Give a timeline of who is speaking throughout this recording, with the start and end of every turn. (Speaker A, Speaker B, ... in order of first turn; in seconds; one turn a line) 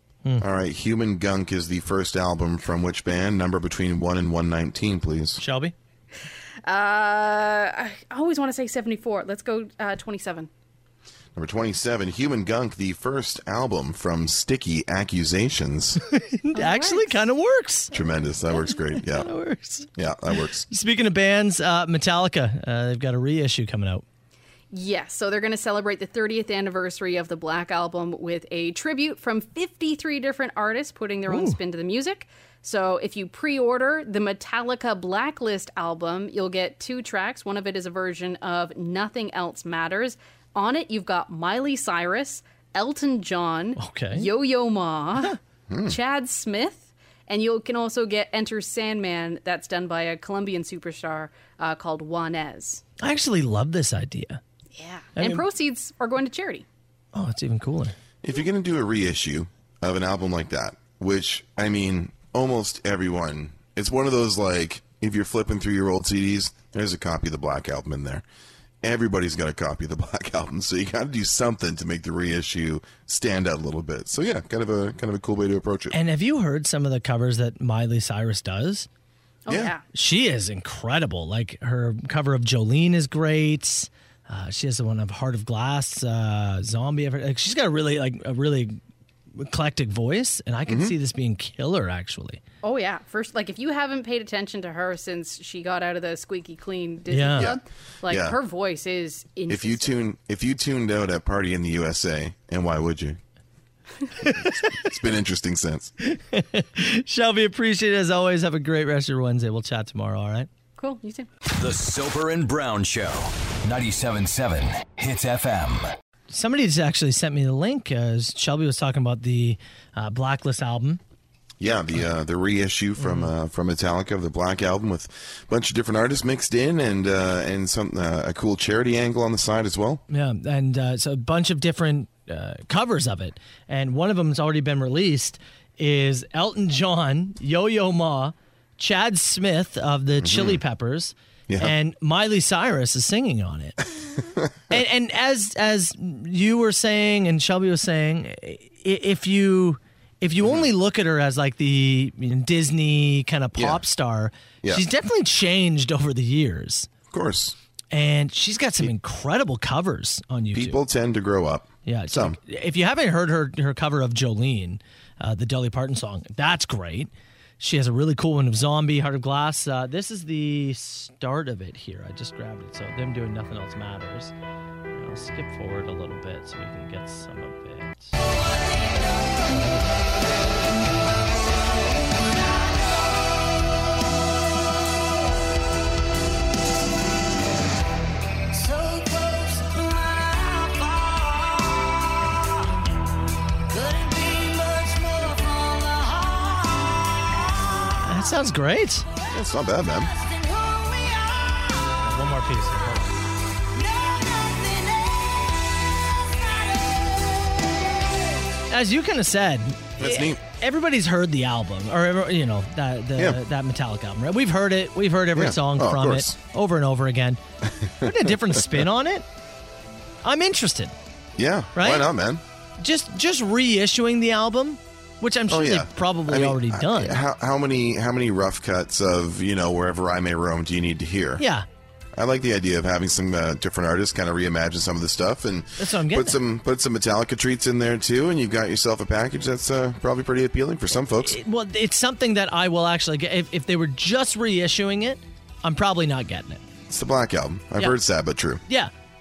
Speaker A: 0.4-5.4
Speaker B: 5.4-5.7
Speaker C: 6.6-10.5
Speaker A: 11.3-16.0
Speaker B: 16.1-17.9
Speaker C: 16.5-17.2
Speaker A: 17.9-19.3
Speaker B: 19.0-19.9
Speaker A: 19.9-20.6
Speaker B: 20.7-24.0
Speaker C: 24.7-52.8
Speaker B: 31.3-31.6
Speaker B: 43.8-44.3
Speaker A: 45.7-46.0
Speaker B: 53.0-54.4
Speaker C: 54.7-56.6
Speaker B: 55.2-55.4
Speaker B: 57.1-57.9
Speaker A: 58.2-68.2
Speaker A: 68.8-76.0
Speaker B: 75.9-78.9
Speaker C: 79.4-79.8
Speaker A: 79.5-79.7
Speaker B: 79.9-88.8
Speaker B: 89.3-92.4
Speaker A: 90.7-90.9
Speaker C: 92.6-99.9
Speaker B: 97.1-97.5
Speaker A: 97.4-98.4
Speaker A: 99.5-103.2
Speaker B: 104.2-104.7
Speaker A: 104.6-105.9
Speaker B: 106.0-110.5
Speaker C: 110.8-111.3
Speaker D: 111.6-115.9
Speaker B: 116.3-121.0
Speaker A: 121.6-130.0
Speaker B: 123.0-123.3
Speaker B: 130.1-143.8
Speaker A: 140.2-140.6
Speaker A: 141.5-141.7
Speaker B: 144.7-156.9
Speaker A: 150.4-150.7
Speaker A: 153.6-153.8
Speaker A: 157.1-157.6
Speaker B: 157.9-160.8
Speaker A: 160.5-162.4
Speaker B: 161.8-174.3
Speaker B: 174.9-178.1
Speaker B: 179.5-180.0
Speaker E: 188.6-191.6
Speaker E: 193.7-197.0
Speaker B: 198.0-199.1
Speaker A: 199.3-200.1
Speaker E: 200.2-201.9
Speaker B: 202.0-203.2
Speaker E: 203.7-207.0
Speaker B: 208.7-217.4
Speaker A: 210.0-210.4
Speaker A: 215.3-216.4
Speaker A: 217.6-218.8
Speaker B: 218.0-219.2
Speaker B: 220.2-220.9
Speaker A: 221.4-222.4
Speaker B: 221.7-222.1
Speaker B: 222.8-227.2
Speaker A: 225.5-231.4
Speaker B: 231.4-231.7
Speaker A: 232.1-241.4
Speaker B: 235.8-236.4
Speaker B: 241.2-246.6
Speaker A: 246.9-248.6
Speaker B: 248.7-248.9